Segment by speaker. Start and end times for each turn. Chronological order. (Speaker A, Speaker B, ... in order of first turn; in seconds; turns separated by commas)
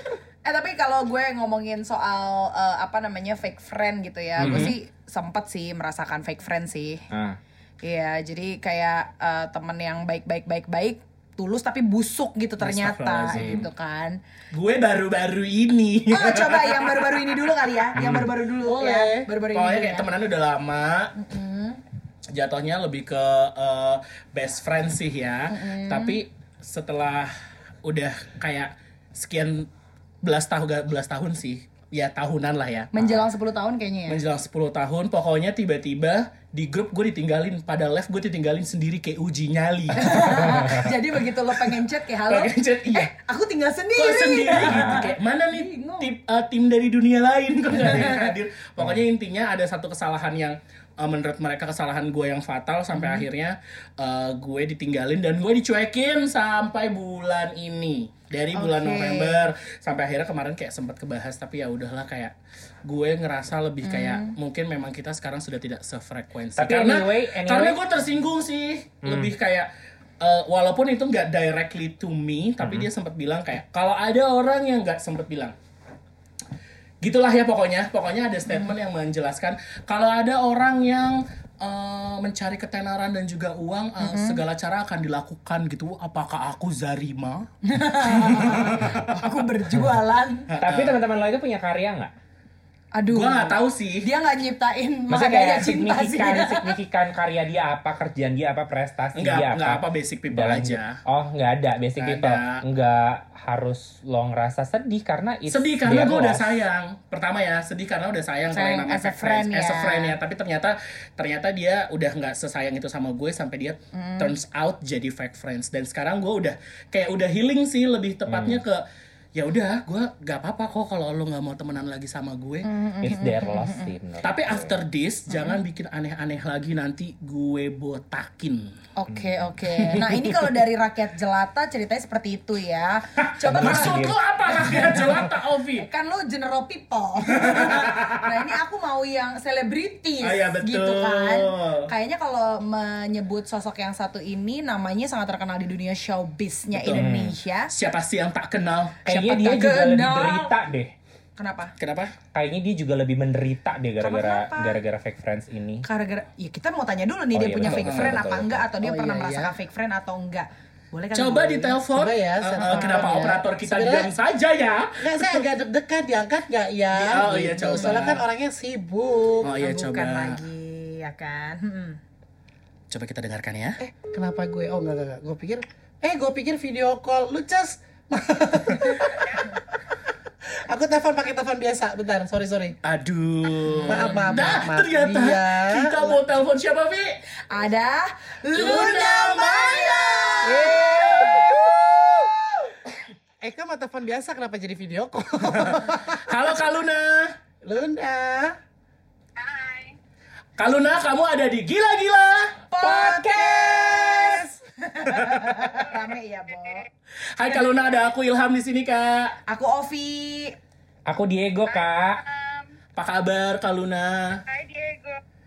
Speaker A: 0.4-7.0, Speaker B: 4.4-4.7, Speaker B: 7.1-7.4, Speaker A: 7.8-14.2, Speaker C: 12.6-13.7, Speaker B: 13.3-13.7, Speaker C: 14.5-18.2, Speaker A: 16.1-20.1, Speaker B: 18.0-18.3, Speaker D: 18.6-19.3, Speaker C: 19.5-21.1, Speaker A: 21.1-21.8, Speaker C: 22.3-27.3, Speaker A: 25.5-26.2, Speaker C: 27.8-29.7, Speaker C: 30.2-32.9, Speaker A: 32.9-34.2, Speaker C: 34.1-40.9, Speaker A: 40.0-46.1, Speaker C: 42.3-43.1, Speaker C: 43.9-62.3, Speaker A: 47.9-48.3, Speaker A: 52.9-53.2, Speaker A: 58.5-59.5, Speaker C: 62.8-69.7, Speaker A: 63.8-64.3, Speaker B: 66.5-67.8, Speaker B: 69.0-69.3, Speaker C: 70.2-75.5, Speaker B: 72.6-72.9, Speaker C: 77.0-87.5, Speaker A: 84.0-84.4, Speaker A: 87.6-90.5, Speaker C: 88.1-89.2, Speaker B: 90.5-92.1, Speaker C: 90.6-91.0, Speaker A: 93.0-96.8, Speaker C: 93.1-94.1, Speaker B: 95.1-106.6, Speaker C: 99.1-101.0, Speaker C: 102.0-102.6, Speaker C: 105.5-122.7, Speaker A: 108.5-110.2, Speaker A: 113.9-114.3, Speaker B: 118.3-118.6, Speaker A: 122.6-123.9, Speaker B: 123.0-124.7, Speaker C: 124.2-128.7, Speaker A: 125.3-125.6, Speaker A: 128.9-134.1, Speaker B: 129.1-129.4, Speaker B: 133.3-135.1, Speaker C: 133.5-135.9, Speaker A: 135.8-147.7, Speaker C: 137.4-137.9, Speaker C: 140.2-141.9, Speaker C: 146.7-147.0, Speaker B: 146.9-147.3, Speaker C: 147.7-149.0, Speaker B: 149.0-150.9, Speaker A: 149.1-150.5, Speaker A: 151.4-151.7, Speaker C: 151.8-152.2, Speaker B: 152.3-155.8, Speaker A: 154.0-154.8, Speaker A: 155.8-161.8, Speaker B: 157.3-158.6, Speaker C: 157.6-158.2, Speaker D: 158.8-159.5, Speaker C: 161.1-165.5, Speaker D: 161.9-164.1, Speaker A: 162.5-163.3, Speaker D: 165.0-169.6, Speaker C: 166.9-168.2, Speaker C: 169.4-170.4, Speaker A: 169.6-172.0, Speaker C: 172.9-173.8, Speaker D: 173.8-179.9, Speaker E: 179.2-179.5, Speaker D: 180.7-182.8, Speaker C: 182.8-187.2, Speaker A: 183.7-184.5, Speaker D: 183.8-186.2, Speaker A: 187.5-192.7, Speaker C: 188.5-190.0, Speaker D: 188.6-191.8, Speaker C: 190.6-191.4, Speaker D: 193.4-196.3, Speaker C: 196.1-197.3, Speaker D: 197.6-198.5, Speaker E: 199.3-200.0, Speaker C: 200.6-204.4, Speaker A: 202.7-206.8, Speaker D: 203.2-204.6, Speaker C: 205.1-205.6, Speaker E: 205.8-206.1, Speaker C: 207.3-209.4, Speaker E: 207.6-208.0, Speaker A: 209.5-210.5, Speaker B: 211.1-212.2, Speaker E: 211.7-212.7, Speaker C: 212.9-214.4, Speaker E: 214.4-215.2